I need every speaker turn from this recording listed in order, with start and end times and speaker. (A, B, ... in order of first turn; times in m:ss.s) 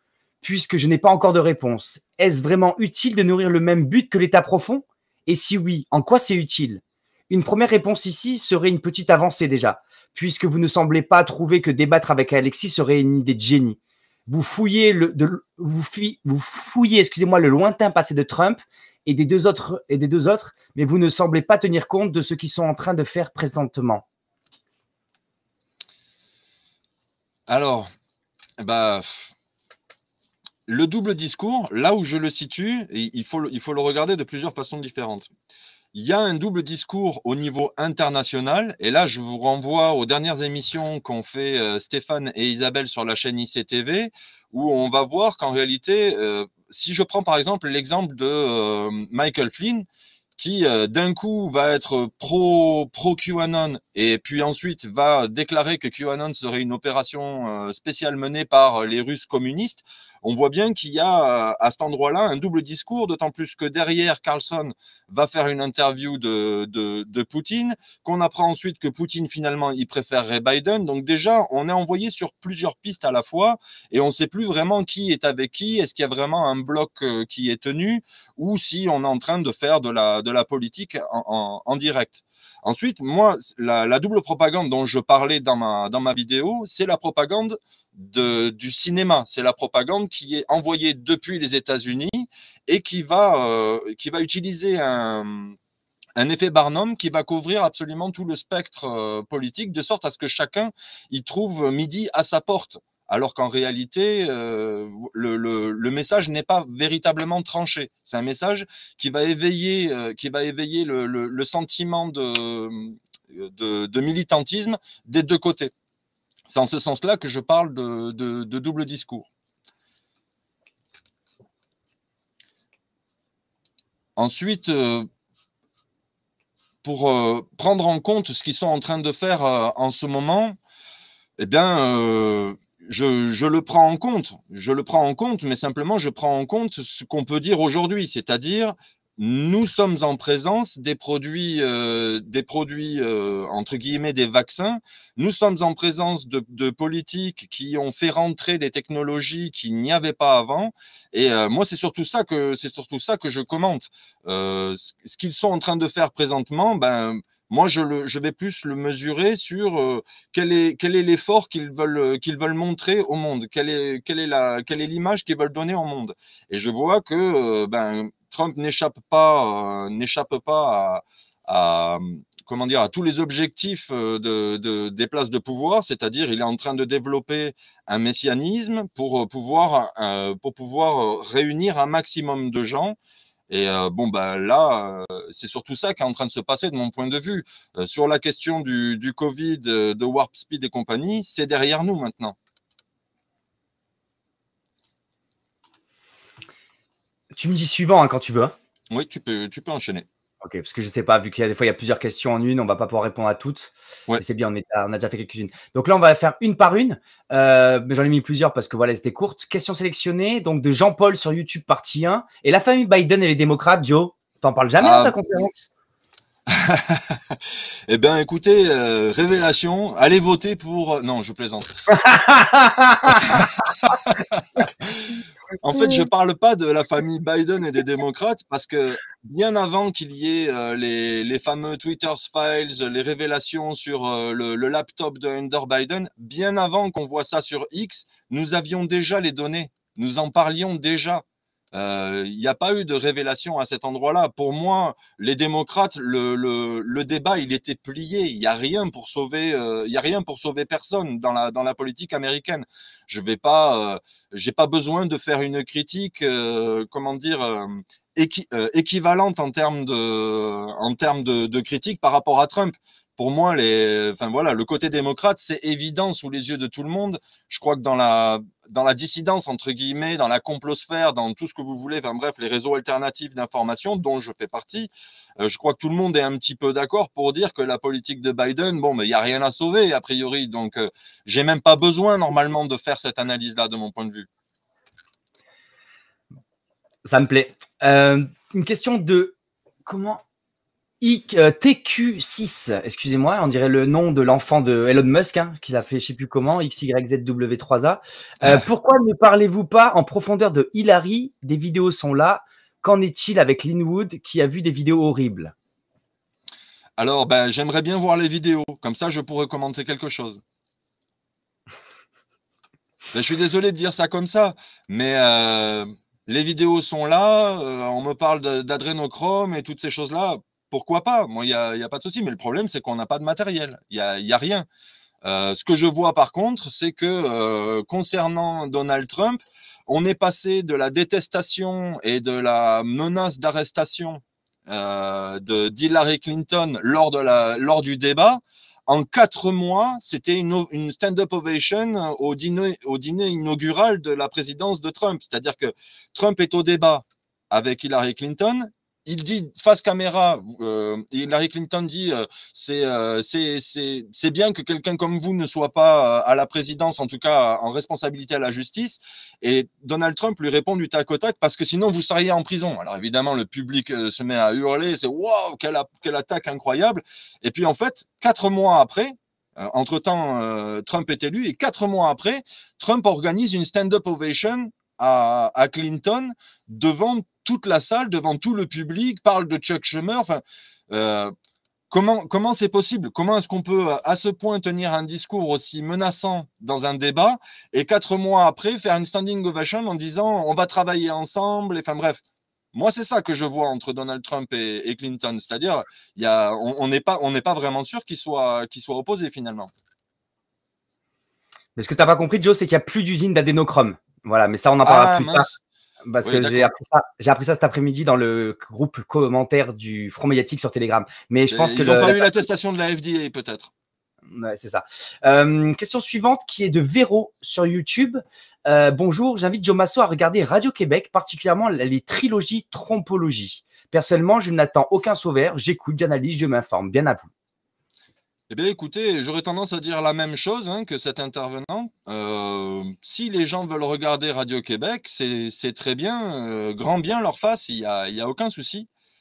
0:00.4-0:24.0 A
0:27.5-0:27.9 B
0:28.6-0:29.3 B
0:30.7-0:35.3 B
0:35.9-0:49.9 B
0:50.4-1:35.6 B
1:36.2-1:55.7 B
1:56.5-1:59.3 B
2:04.2-2:05.1 B
2:06.8-2:10.6 B
2:11.4-3:03.0 B
3:03.5-3:12.4 B
3:17.4-3:18.6 A
3:18.9-3:20.1 B
3:20.4-3:35.7 A
3:34.8-3:35.2 B
3:36.5-3:41.7 B
3:41.9-3:43.4 A
3:43.1-4:44.3 B
4:47.0-4:49.4 A
4:49.9-4:50.2 A
4:51.0-5:05.5 A
5:07.0-5:10.4 B
5:13.1-5:24.7 B
5:25.2-6:21.3 B
6:21.9-6:32.2 B
6:32.7-6:39.7 B
6:41.8-6:45.5 A
6:44.8-6:45.6 B
6:46.1-6:52.3 A
6:46.2-6:46.7 B
6:51.5-6:53.7 B
6:54.3-7:07.3 A
7:08.5-7:18.9 B